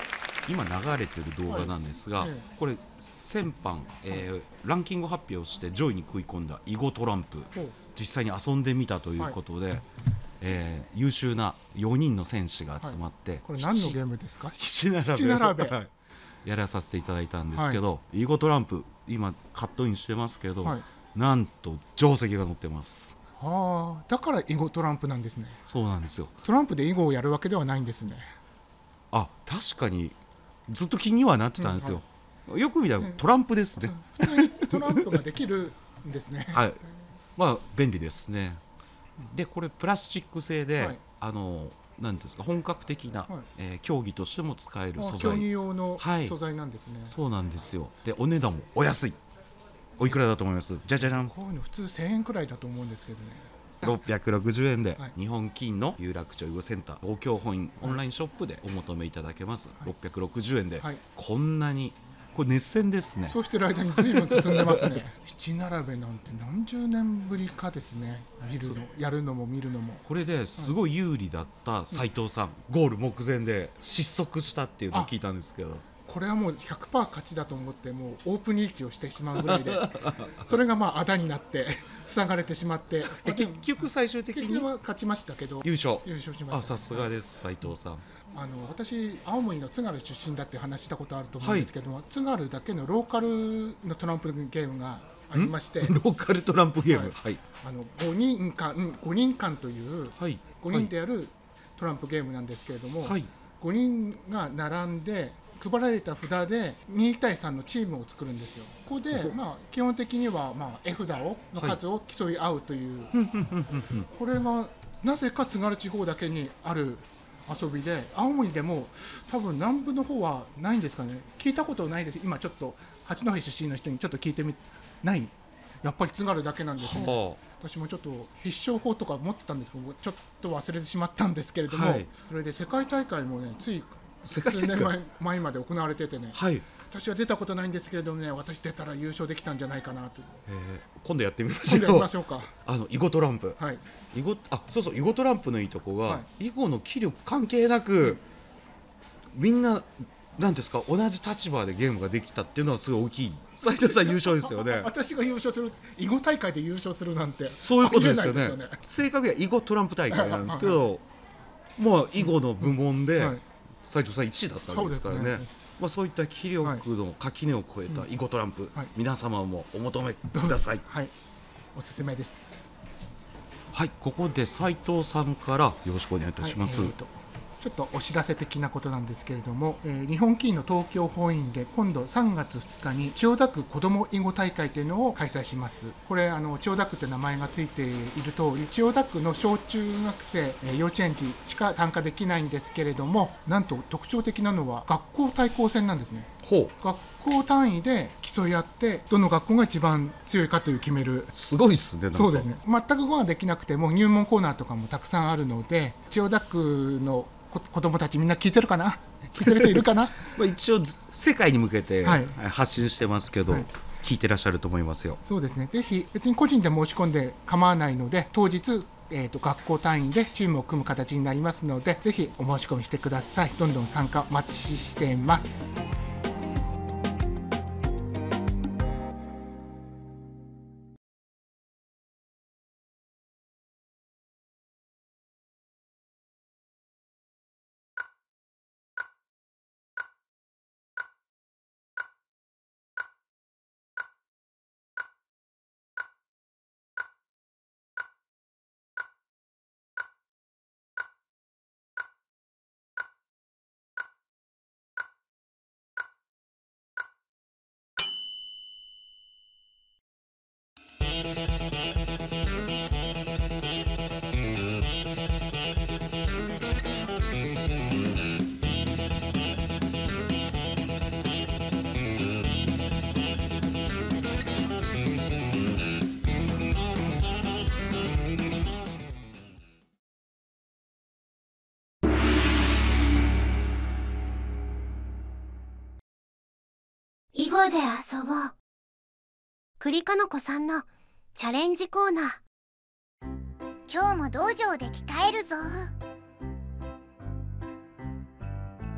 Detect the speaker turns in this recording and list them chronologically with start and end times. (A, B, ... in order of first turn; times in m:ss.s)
0:00.4-0:09.9 A
0:01.5-0:02.5 B
0:07.5-0:07.8 B
0:10.4-0:14.0 A
0:12.8-0:15.8 B
0:14.6-0:15.9 A
0:16.4-0:23.1 A
0:17.5-0:17.8 B
0:23.4-0:25.6 B
0:25.6-0:26.3 A
0:26.4-0:28.2 B
0:29.1-0:35.2 A
0:31.6-0:32.0 B
0:33.8-0:36.6 B
0:36.5-0:36.8 A
0:37.4-0:38.6 A
0:39.2-0:46.4 A
0:45.0-0:47.2 B
0:47.1-0:49.2 A
0:50.0-0:51.3 A
0:51.0-0:53.9 B
0:53.8-1:03.4 A
1:03.3-1:10.0 B
1:04.0-1:04.9 A
1:10.0-1:15.9 A
1:16.0-1:23.7 B
1:19.4-1:20.3 A
1:23.1-1:24.7 A
1:24.3-1:27.1 B
1:25.6-1:28.0 A
1:28.3-1:36.0 B
1:31.4-1:31.7 A
1:35.3-1:37.4 A
1:36.9-1:53.1 B
1:40.2-1:40.9 A
1:43.0-1:43.3 A
1:53.2-1:54.0 A
1:54.0-2:20.4 B
2:06.8-2:07.4 A
2:11.7-2:12.1 A
2:14.2-2:14.9 A
2:16.3-2:16.6 A
2:20.5-2:22.1 A
2:21.6-2:22.5 B
2:22.6-2:23.6 A
2:23.6-2:23.8 B
2:24.1-2:28.2 A
2:29.3-2:34.9 A
2:33.6-2:38.8 B
2:37.6-2:41.0 A
2:40.1-2:40.8 B
2:41.8-2:50.8 A
2:43.2-2:43.4 B
2:44.6-2:45.5 B
2:50.3-2:51.1 B
2:51.7-2:52.7 B
2:53.7-2:56.9 A
2:56.4-3:21.3 B
3:16.4-3:16.7 A
3:21.3-3:22.5 A
3:22.1-3:30.3 B
3:30.3-3:35.2 A
3:32.0-3:32.4 B
3:35.2-3:45.8 B
4:47.3-4:48.5 C
4:49.8-4:52.4 C
4:53.9-4:55.9 D